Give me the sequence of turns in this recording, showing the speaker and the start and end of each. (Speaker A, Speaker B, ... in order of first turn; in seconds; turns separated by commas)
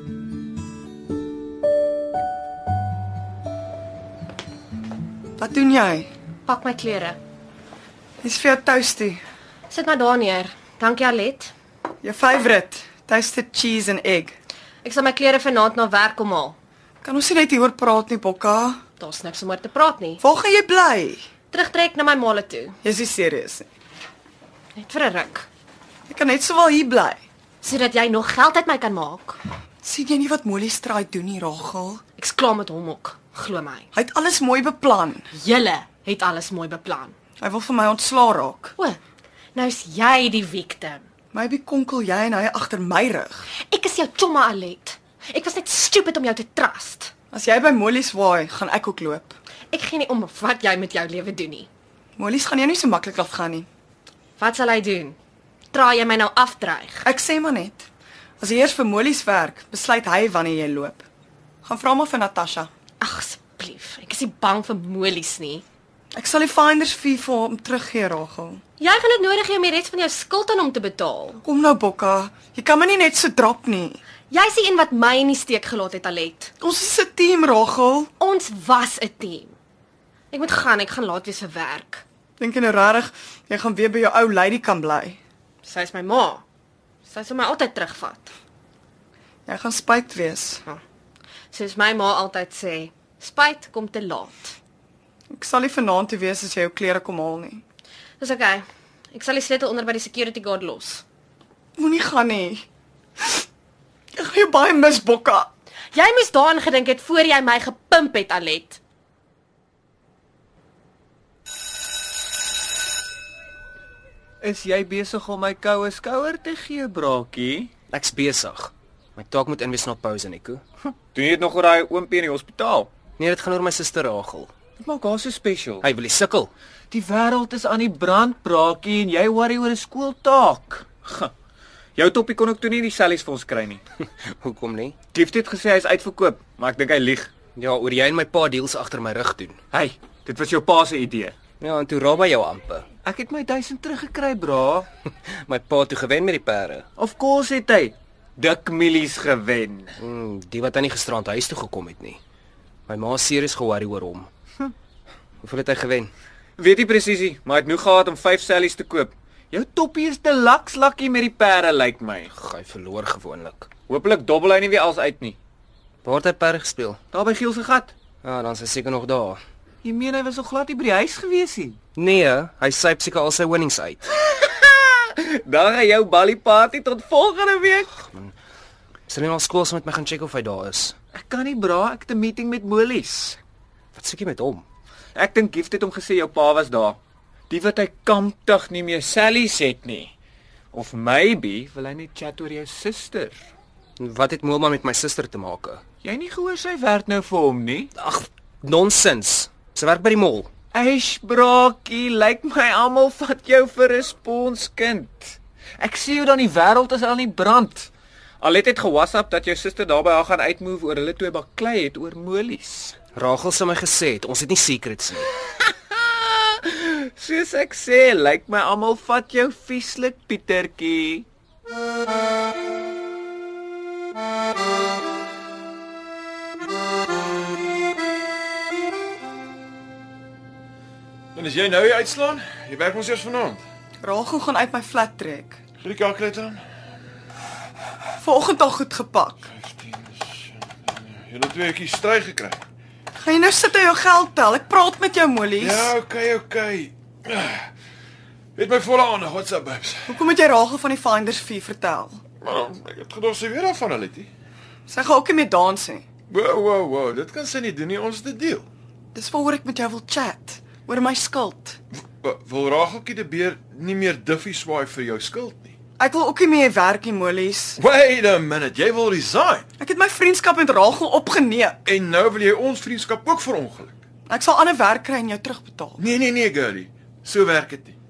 Speaker A: 5.4-6.1, Speaker B: 6.4-7.2, Speaker A: 8.2-9.2, Speaker B: 9.7-11.5, Speaker A: 12.0-14.3, Speaker B: 14.8-16.6, Speaker A: 17.0-18.8, Speaker B: 19.0-20.2, Speaker A: 20.2-21.2, Speaker B: 21.5-22.8, Speaker A: 22.8-23.7, Speaker B: 24.8-25.5, Speaker A: 26.1-27.2, Speaker B: 27.6-29.4, Speaker A: 29.8-32.0, Speaker B: 32.2-33.9, Speaker A: 33.9-35.3, Speaker B: 35.3-37.1, Speaker A: 37.4-38.8, Speaker B: 39.5-41.1, Speaker A: 41.3-43.5, Speaker B: 43.7-47.1, Speaker A: 47.3-49.4, Speaker B: 49.7-51.7, Speaker A: 52.2-53.7, Speaker B: 54.4-55.2, Speaker B: 55.7-57.1, Speaker A: 57.0-57.9, Speaker A: 58.4-61.0, Speaker A: 61.6-62.7, Speaker B: 63.0-65.6, Speaker A: 66.1-68.6, Speaker B: 68.8-71.4, Speaker A: 71.4-74.0, Speaker B: 74.3-76.5, Speaker A: 76.6-78.1, Speaker B: 78.2-79.6, Speaker B: 80.3-82.0, Speaker A: 82.4-85.2, Speaker B: 85.6-86.4, Speaker B: 87.1-88.3, Speaker A: 89.5-90.6, Speaker B: 91.5-94.6, Speaker A: 95.3-97.6, Speaker B: 98.2-101.0, Speaker A: 101.8-102.6, Speaker A: 104.2-105.5, Speaker B: 105.9-108.8, Speaker C: 114.4-117.7, Speaker D: 117.9-120.6, Speaker C: 121.1-122.9, Speaker D: 123.2-124.5, Speaker C: 124.8-125.9, Speaker D: 125.8-126.5, Speaker C: 126.9-131.3, Speaker C: 131.9-133.8, Speaker D: 134.2-135.0, Speaker C: 135.1-137.3, Speaker D: 137.6-139.6, Speaker C: 139.7-141.3, Speaker D: 141.6-142.9, Speaker C: 143.0-144.9, Speaker D: 145.3-146.8, Speaker C: 147.0-150.0, Speaker D: 150.0-152.2, Speaker D: 152.9-154.3, Speaker D: 155.4-156.1, Speaker C: 156.6-162.3, Speaker D: 162.3-163.7, Speaker C: 163.9-165.4, Speaker D: 166.0-167.0, Speaker C: 167.1-167.9, Speaker D: 168.2-169.4, Speaker C: 169.8-171.8, Speaker D: 171.9-174.0, Speaker C: 174.3-177.9, Speaker D: 178.0-178.3, Speaker D: 179.1-180.9, Speaker C: 181.1-183.4, Speaker D: 183.9-184.6, Speaker C: 185.1-190.1, Speaker C: 190.7-193.5, Speaker D: 194.0-195.8, Speaker C: 196.0-197.9, Speaker D: 197.9-200.5, Speaker C: 200.7-207.9, Speaker C: 208.4-213.0, Speaker D: 213.1-215.3, Speaker C: 215.7-221.2, Speaker E: 231.3-233.6, Speaker A: 234.0-235.6, Speaker E: 235.8-236.6, Speaker A: 238.2-239.5, Speaker E: 239.5-242.6, Speaker A: 243.2-245.9, Speaker E: 245.6-247.7, Speaker E: 248.6-250.2, Speaker A: 250.1-252.2, Speaker E: 252.4-254.3, Speaker A: 254.9-256.1, Speaker E: 256.3-258.7, Speaker A: 259.1-261.8, Speaker E: 261.9-265.8, Speaker A: 266.0-267.8, Speaker E: 267.8-269.7, Speaker A: 269.8-271.8, Speaker E: 271.9-274.0, Speaker A: 274.3-276.0, Speaker E: 276.0-278.0